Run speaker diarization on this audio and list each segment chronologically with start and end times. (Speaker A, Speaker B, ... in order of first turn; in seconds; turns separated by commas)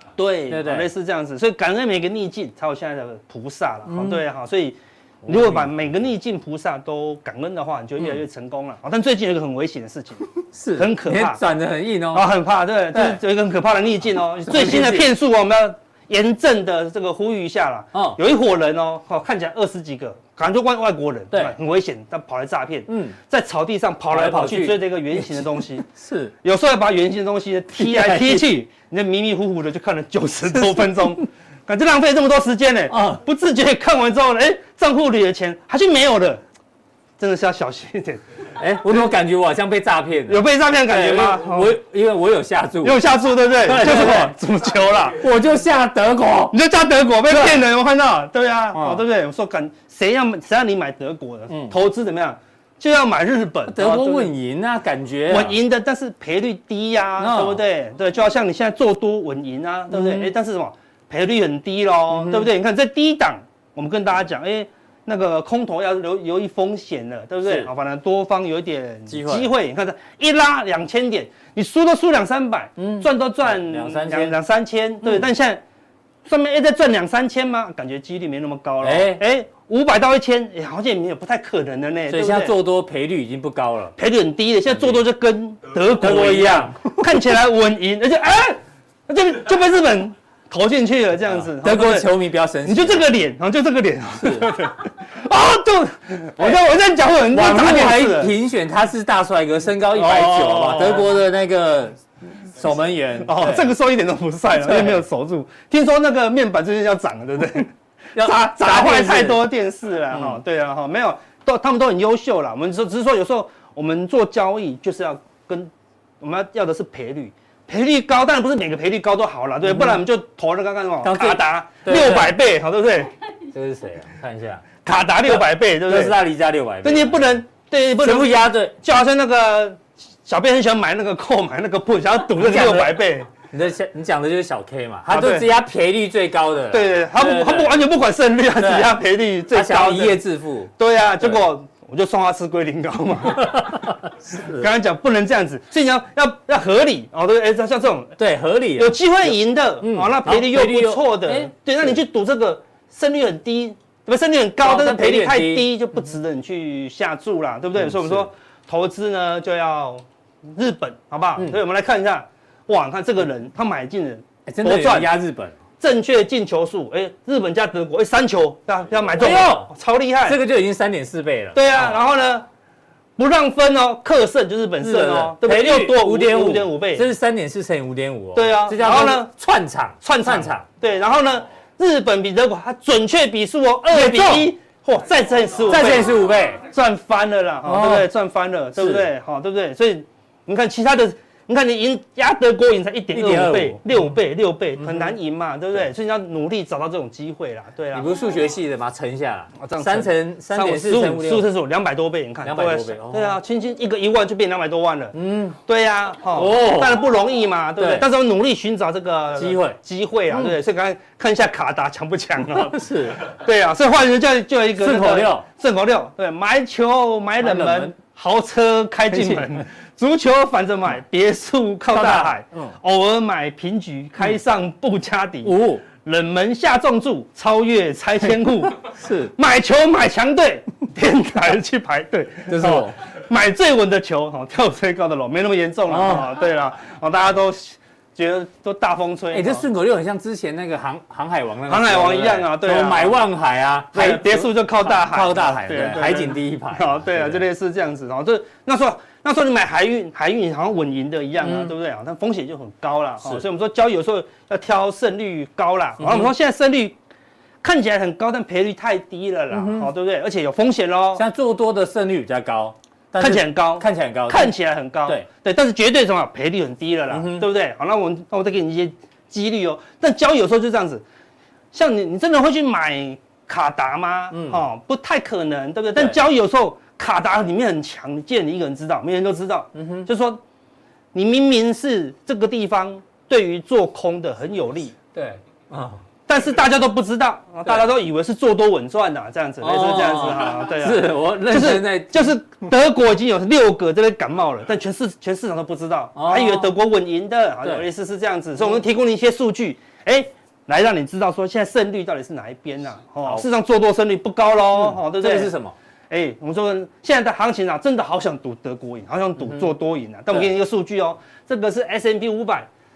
Speaker A: 0.2-11.4, Speaker B: 0.5-0.9, Speaker B: 3.9-4.2, Speaker B: 5.2-5.7, Speaker B: 10.5-12.3, Speaker A: 12.1-25.9, Speaker B: 12.9-13.2, Speaker B: 14.4-15.1, Speaker B: 17.9-18.2, Speaker B: 21.3-21.6, Speaker B: 22.9-23.2, Speaker B: 24.1-26.3, Speaker A: 26.4-36.4, Speaker B: 27.8-28.5, Speaker B: 30.6-31.1, Speaker B: 32.9-33.2, Speaker A: 37.2-38.2, Speaker B: 38.6-43.0, Speaker A: 40.3-41.8, Speaker A: 42.8-45.2, Speaker B: 43.6-44.4, Speaker B: 45.2-46.6, Speaker A: 46.5-54.3, Speaker B: 47.3-47.6, Speaker B: 48.7-49.0, Speaker B: 51.5-51.8, Speaker B: 53.6-55.6, Speaker A: 55.3-75.6, Speaker B: 57.2-57.6, Speaker B: 59.9-60.3, Speaker B: 62.1-62.5, Speaker B: 67.4-67.7, Speaker B: 69.1-69.5, Speaker B: 72.8-74.4, Speaker A: 76.2-82.5, Speaker B: 78.8-79.2, Speaker B: 82.1-84.0, Speaker A: 84.0-92.1, Speaker B: 84.7-85.0, Speaker B: 86.0-87.3, Speaker B: 91.5-93.1, Speaker A: 92.7-98.3, Speaker B: 94.2-94.5, Speaker B: 96.4-96.6, Speaker B: 97.3-103.7, Speaker A: 99.9-101.1, Speaker A: 103.2-123.1, Speaker B: 104.6-105.0, Speaker B: 108.2-109.5, Speaker B: 110.1-110.4, Speaker B: 119.7-120.0, Speaker B: 121.0-122.4, Speaker B: 123.5-124.6, Speaker A: 124.8-126.2, Speaker B: 125.2-127.4, Speaker A: 126.8-133.3, Speaker B: 128.0-128.8, Speaker B: 132.3-137.9, Speaker A: 135.1-135.5, Speaker A: 136.7-140.2, Speaker B: 138.6-139.0, Speaker B: 139.5-141.4, Speaker A: 140.8-148.2, Speaker B: 143.4-144.7, Speaker B: 148.2-151.9, Speaker A: 148.8-165.1, Speaker B: 154.6-155.7, Speaker B: 157.8-158.3, Speaker B: 164.5-165.6, Speaker A: 165.8-170.4, Speaker B: 169.2-169.7, Speaker B: 170.2-172.0, Speaker A: 171.5-172.5, Speaker A: 173.2-177.1, Speaker B: 174.8-180.7, Speaker A: 178.3-179.3, Speaker A: 180.0-198.1, Speaker B: 183.9-184.5, Speaker B: 185.7-186.6, Speaker B: 187.7-188.1, Speaker B: 188.8-189.1, Speaker B: 193.1-193.9, Speaker B: 194.8-195.2, Speaker B: 197.9-201.5, Speaker A: 199.6-239.7, Speaker B: 202.4-203.4, Speaker B: 205.1-205.6, Speaker B: 206.3-207.1, Speaker B: 207.8-208.1, Speaker B: 209.4-209.8, Speaker B: 210.3-210.6, Speaker B: 212.5-213.2, Speaker B: 214.8-215.5, Speaker B: 217.4-217.9, Speaker B: 219.1-219.6, Speaker B: 221.9-222.8, Speaker B: 225.4-225.8, Speaker B: 228.9-229.3, Speaker B: 232.5-233.0, Speaker B: 235.9-236.4, Speaker B: 239.3-247.4, Speaker A: 241.7-243.3, Speaker A: 243.9-257.0, Speaker B: 251.4-251.7, Speaker B: 256.0-256.3, Speaker A: 257.6-261.2, Speaker B: 259.5-259.9, Speaker B: 261.1-264.5, Speaker A: 263.2-271.0, Speaker B: 267.1-267.5, Speaker A: 271.7-280.4, Speaker B: 274.3-274.6, Speaker B: 279.8-280.1, Speaker A: 281.1-284.9, Speaker B: 285.1-286.0, Speaker A: 286.3-305.5, Speaker B: 289.6-292.3, Speaker B: 296.2-296.7, Speaker B: 304.7-305.8, Speaker A: 306.1-312.7